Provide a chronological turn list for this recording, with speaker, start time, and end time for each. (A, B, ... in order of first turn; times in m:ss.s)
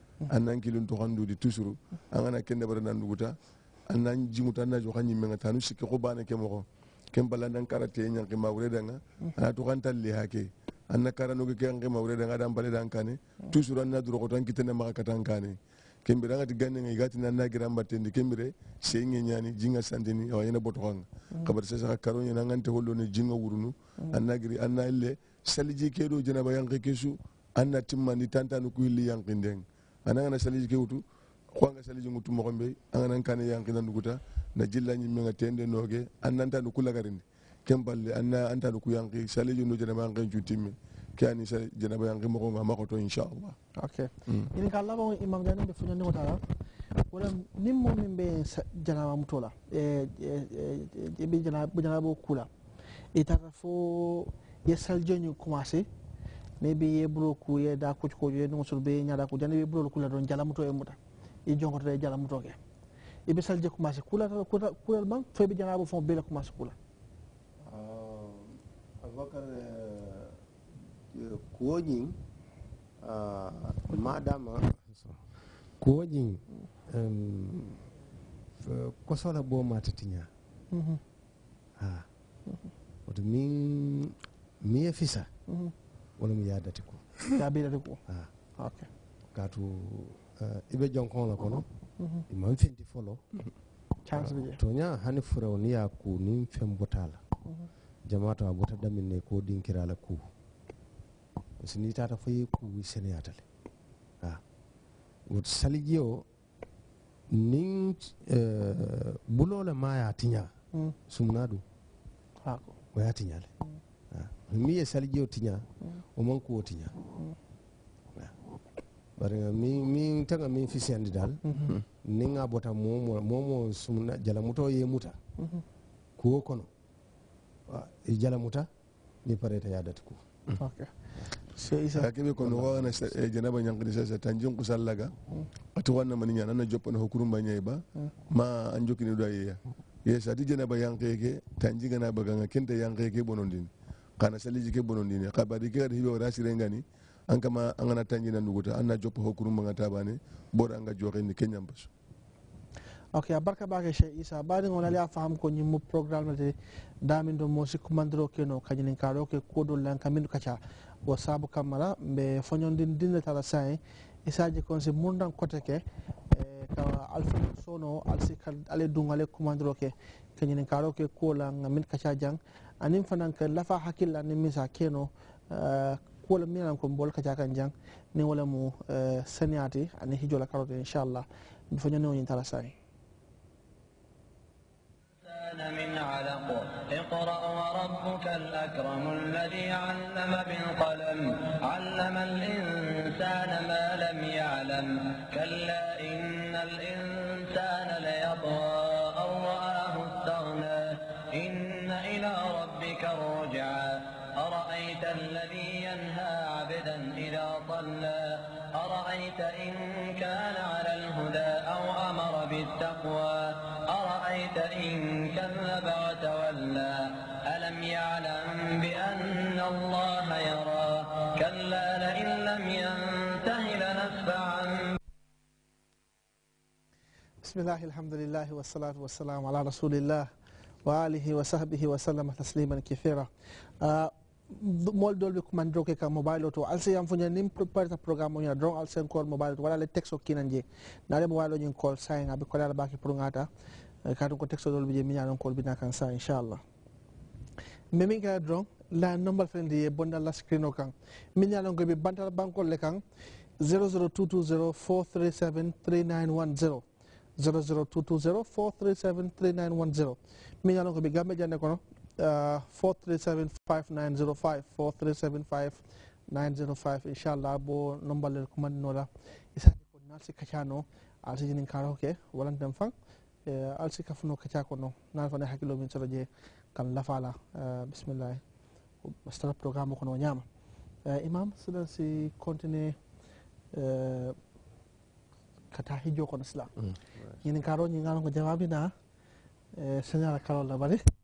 0:00.3-0:03.3 A
0:03.9-0:31.0 A
0:31.6-0:43.6 A
0:43.8-0:46.4 B
0:47.1-0:52.5 B
0:53.1-0:55.9 B
0:56.6-1:02.6 B
1:03.3-1:06.8 B
1:07.6-1:10.4 C
1:11.1-1:12.2 C
1:13.0-1:15.2 C
1:15.8-1:17.9 C
1:18.6-1:20.3 C
1:20.7-1:21.0 B
1:21.8-1:22.1 C
1:23.1-1:25.3 C
1:26.2-1:27.0 C
1:27.4-1:28.0 B
1:28.6-1:28.9 B
1:29.3-1:31.6 C
1:32.0-1:32.2 B
1:32.3-1:33.2 C
1:34.0-1:34.6 B
1:34.2-1:37.2 C
1:38.0-1:40.2 C
1:41.6-1:43.4 C
1:45.3-1:46.2 C
1:47.3-1:50.5 C
1:51.1-1:51.6 C
1:52.4-1:52.8 B
1:52.9-1:53.5 C
1:54.1-1:55.6 C
1:56.2-1:57.0 C
1:59.2-2:05.2 C
2:06.2-2:06.7 C
2:07.7-2:08.7 C
2:09.2-2:10.2 C
2:10.6-2:10.9 B
2:11.6-2:12.1 B
2:12.0-2:15.1 A
2:12.4-2:13.1 C
2:15.8-2:31.9 A
2:33.1-3:02.7 B
3:05.2-3:45.0 D
3:47.4-3:50.3 B
3:50.8-3:53.3 B
3:53.8-4:03.5 B
4:04.0-4:06.6 B
4:07.9-4:13.0 B
4:13.6-4:16.8 B
4:17.4-4:32.9 B
4:33.5-4:38.4 B
4:39.0-4:40.4 B
4:41.1-4:43.0 B
4:43.7-4:44.4 B
4:45.7-4:46.7 B
4:47.4-4:48.9 B
4:49.8-4:51.0 B